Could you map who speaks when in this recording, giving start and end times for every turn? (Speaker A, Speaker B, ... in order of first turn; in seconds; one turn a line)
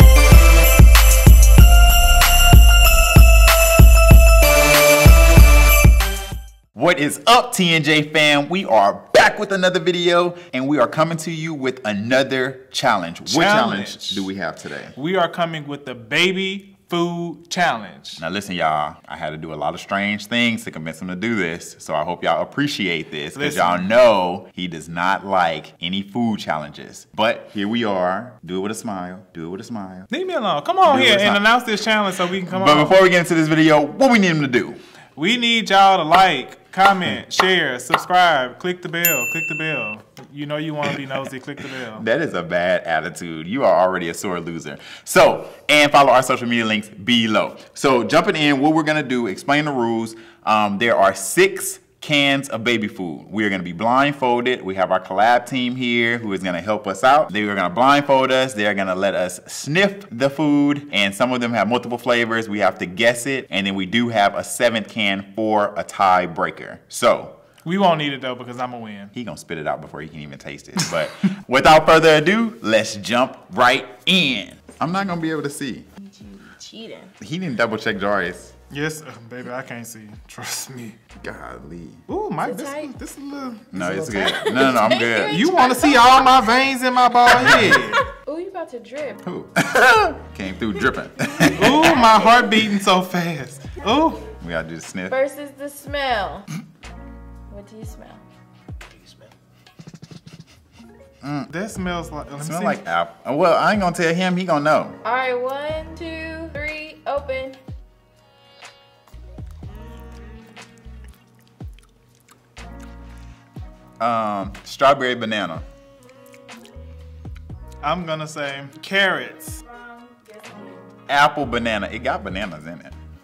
Speaker A: 6.7-14.9
Speaker B: 13.3-14.3
Speaker B: 14.9-18.2
Speaker A: 18.2-30.1
Speaker B: 23.4-23.9
Speaker B: 30.1-33.0
Speaker A: 30.9-31.4
Speaker A: 32.5-34.8
Speaker B: 35.2-42.0
Speaker A: 41.8-67.4
Speaker B: 67.7-69.1
Speaker A: 69.1-75.9
Speaker C: 76.0-77.1
Speaker A: 77.2-78.5
Speaker B: 78.7-81.0
Speaker A: 81.2-82.0
Speaker B: 82.1-84.1
Speaker C: 82.4-82.9
Speaker A: 83.7-85.4
Speaker C: 84.1-86.5
Speaker B: 85.3-88.0
Speaker A: 87.3-87.9
Speaker C: 87.3-89.2
Speaker A: 89.2-92.1
Speaker C: 91.4-92.5
Speaker B: 91.5-94.3
Speaker A: 94.4-95.2
Speaker C: 95.1-96.5
Speaker C: 97.5-98.2
Speaker A: 101.2-101.5
Speaker B: 101.5-102.8
Speaker A: 102.4-105.0
Speaker C: 105.0-107.6
Speaker A: 114.0-115.6
Speaker B: 117.8-119.6
Speaker C: 119.6-121.0
Speaker A: 121.1-123.0